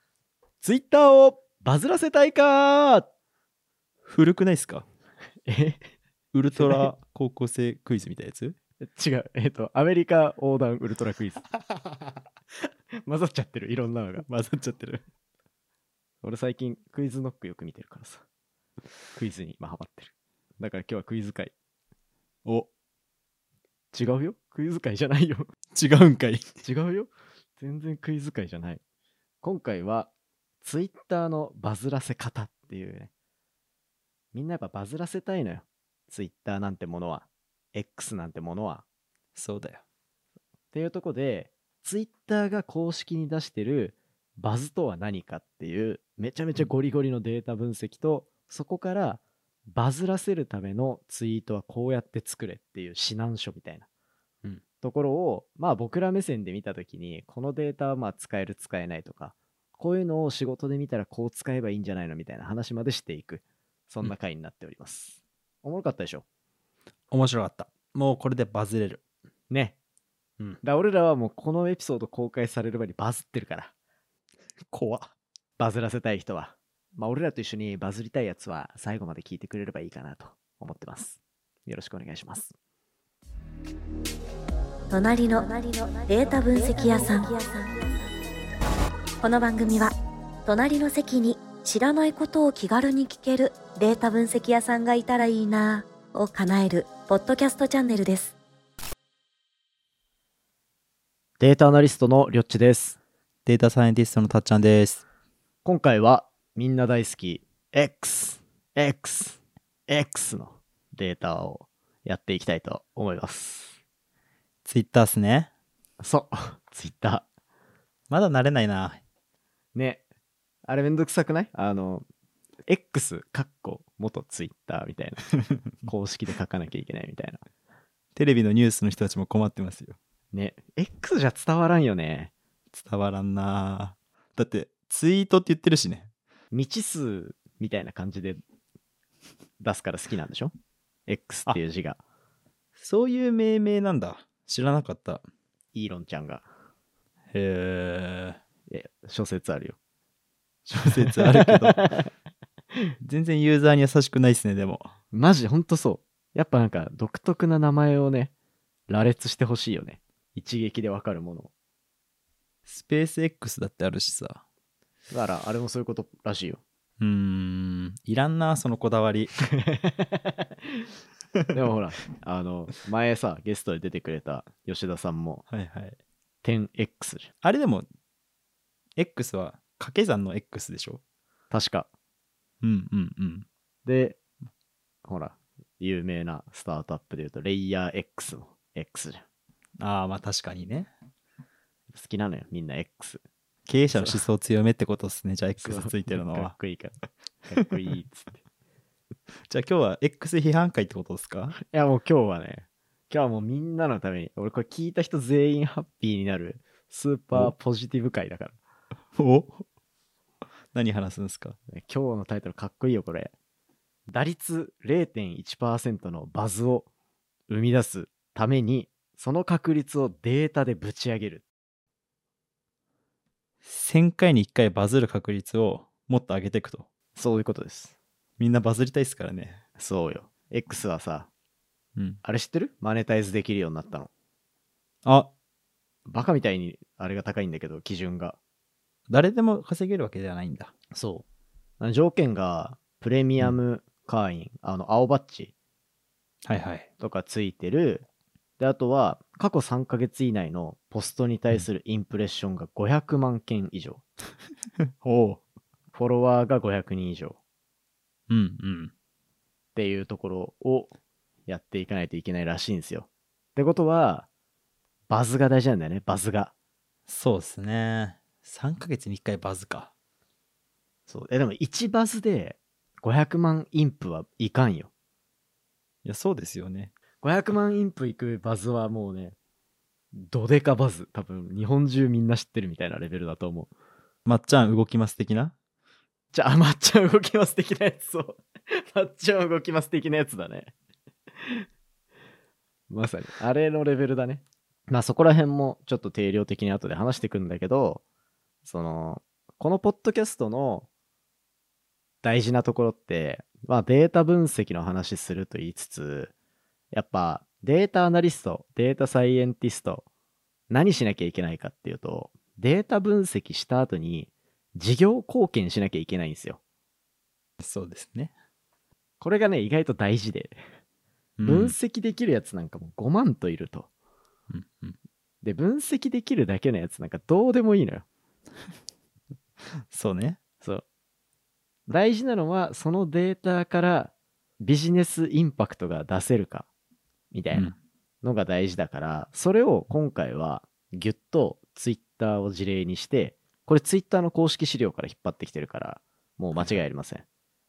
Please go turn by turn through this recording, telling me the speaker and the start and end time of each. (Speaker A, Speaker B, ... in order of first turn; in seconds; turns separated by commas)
Speaker A: 0.6-3.1, Speaker B: 4.0-4.8, Speaker A: 5.5-5.8, Speaker B: 6.3-8.6, Speaker A: 6.5-6.9, Speaker A: 8.8-11.5, Speaker A: 12.9-14.2, Speaker B: 14.2-15.0, Speaker A: 16.2-18.2, Speaker A: 19.1-21.5, Speaker A: 23.9-25.5, Speaker B: 25.7-26.5, Speaker A: 26.6-28.8, Speaker A: 29.4-30.1, Speaker A: 30.6-33.1, Speaker A: 34.3-38.8, Speaker B: 39.3-39.8, Speaker A: 40.7-49.2, Speaker A: 49.7-53.9, Speaker A: 54.6-66.2, Speaker B: 67.1-69.0, Speaker A: 69.5-69.8, Speaker A: 70.6-73.7, Speaker B: 74.7-75.1, Speaker A: 75.6-82.5, Speaker C: 84.9-88.0, Speaker C: 89.2-89.9, Speaker C: 90.4-98.3, Speaker A: 101.4-103.0, Speaker B: 103.5-105.0, Speaker A: 105.6-113.7, Speaker B: 114.6-115.5, Speaker A: 116.0-117.2, Speaker B: 118.1-119.0, Speaker A: 119.7-120.0, Speaker A: 120.7-122.0, Speaker A: 122.7-125.3, Speaker A: 125.8-127.4, Speaker B: 128.1-130.0, Speaker A: 130.3-132.3, Speaker B: 132.7-136.1, Speaker A: 136.5-138.4, Speaker A: 139.6-140.5, Speaker A: 141.1-142.0, Speaker B: 142.8-145.2, Speaker A: 145.7-146.4, Speaker B: 147.3-148.4, Speaker A: 148.7-149.8, Speaker B: 150.7-151.9, Speaker A: 150.8-152.0, Speaker B: 153.0-154.9, Speaker A: 155.1-158.3, Speaker A: 158.9-161.5, Speaker B: 162.7-164.4, Speaker A: 165.1-166.6, Speaker B: 167.0-169.3, Speaker A: 169.5-170.9, Speaker A: 171.5-175.4, Speaker B: 175.5-176.0, Speaker A: 176.4-177.3, Speaker B: 177.4-177.8, Speaker B: 178.9-181.0, Speaker A: 181.5-181.9, Speaker B: 182.6-183.5, Speaker A: 183.8-184.2, Speaker A: 185.0-189.2, Speaker B: 189.8-190.9, Speaker A: 191.9-193.2, Speaker B: 193.7-196.5, Speaker A: 193.9-194.2, Speaker A: 195.6-198.4, Speaker B: 199.5-201.5, Speaker A: 201.5-208.5, Speaker B: 209.2-209.6, Speaker B: 210.7-211.6, Speaker A: 211.7-213.3, Speaker A: 214.1-216.9, Speaker A: 217.5-221.4, Speaker B: 223.6-226.9, Speaker A: 227.1-227.9, Speaker B: 228.4-229.6, Speaker A: 229.8-231.3, Speaker B: 231.9-232.2, Speaker A: 232.2-234.1, Speaker B: 235.0-235.3, Speaker A: 236.1-238.4, Speaker B: 239.1-241.1, Speaker A: 241.8-245.5, Speaker B: 246.4-246.9, Speaker A: 247.0-248.0, Speaker A: 248.6-254.0, Speaker B: 254.9-255.4, Speaker A: 255.9-257.4, Speaker B: 258.3-258.9, Speaker A: 259.7-260.9, Speaker A: 261.5-264.3, Speaker A: 265.1-266.5, Speaker B: 267.1-269.9, Speaker A: 271.1-274.9, Speaker B: 276.0-276.9, Speaker A: 277.2-279.4, Speaker A: 280.1-283.7, Speaker B: 284.2-285.5, Speaker A: 286.3-290.7, Speaker A: 292.9-298.0, Speaker A: 298.6-300.9, Speaker A: 302.2-306.3, Speaker A: 306.9-310.1, Speaker A: 310.7-316.6, Speaker B: 317.6-318.3, Speaker A: 319.2-320.6, Speaker B: 321.4-321.7, Speaker A: 321.4-323.9, Speaker B: 324.5-324.9, Speaker A: 325.4-328.0, Speaker B: 329.9-330.4, Speaker A: 331.9-336.7, Speaker A: 337.3-337.7, Speaker A: 338.2-347.2, Speaker B: 346.6-346.8